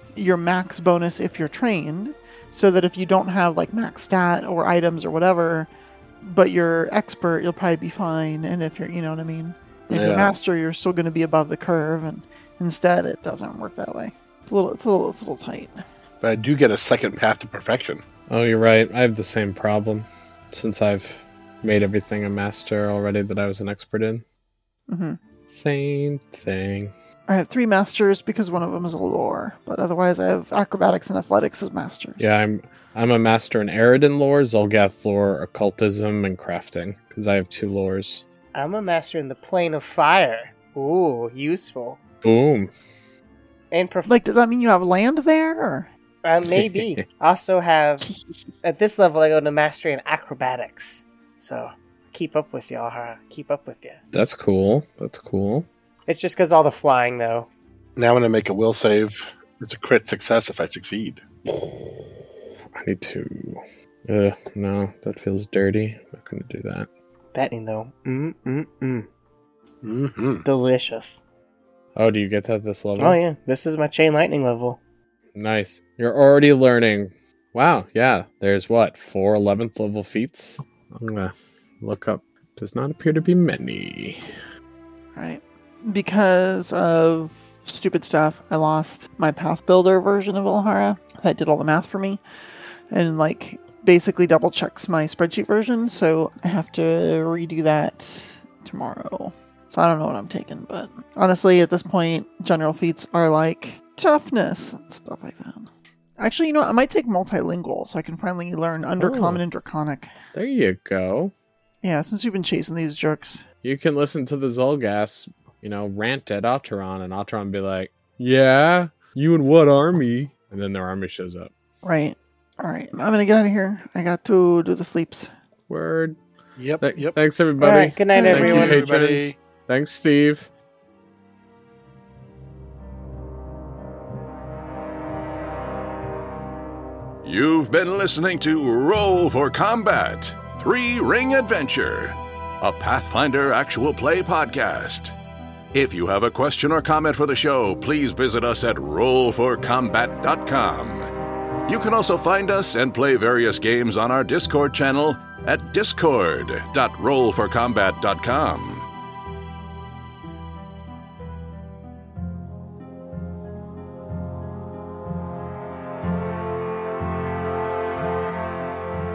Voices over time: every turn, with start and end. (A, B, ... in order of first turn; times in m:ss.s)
0:00.2-0:05.7 A
0:06.2-0:15.8 A
0:09.9-0:10.4 B
0:16.2-0:18.0 B
0:18.3-0:24.2 C
0:24.9-0:25.2 A
0:25.5-0:26.9 C
0:27.3-0:32.3 A
0:32.2-0:38.2 C
0:38.5-0:42.0 D
0:42.2-0:42.7 C
0:43.7-0:44.2 D
0:44.1-0:45.9 A
0:46.2-0:48.1 D
0:46.5-0:47.0 C
0:48.6-0:54.0 D
0:54.1-0:55.7 C
0:56.1-0:57.5 D
0:58.0-1:01.2 B
1:01.5-1:02.0 C
1:02.7-1:06.9 C
1:07.3-1:09.1 D
1:09.8-1:10.4 B
1:10.4-1:11.2 D
1:12.0-1:13.2 C
1:13.0-1:14.8 D
1:15.3-1:24.3 C
1:25.2-1:32.2 A
1:32.9-1:50.1 A
1:49.0-1:49.4 C
1:50.3-1:51.3 C
1:51.8-1:53.4 A
1:53.6-2:01.5 C
2:01.8-2:05.3 A
2:05.7-2:06.2 C
2:06.6-2:07.1 B
2:06.8-2:10.5 C
2:07.6-2:08.8 D
2:08.1-2:08.6 A
2:08.2-2:09.3 B
2:17.2-2:25.2 E
2:25.7-2:31.1 E
2:31.7-2:38.9 E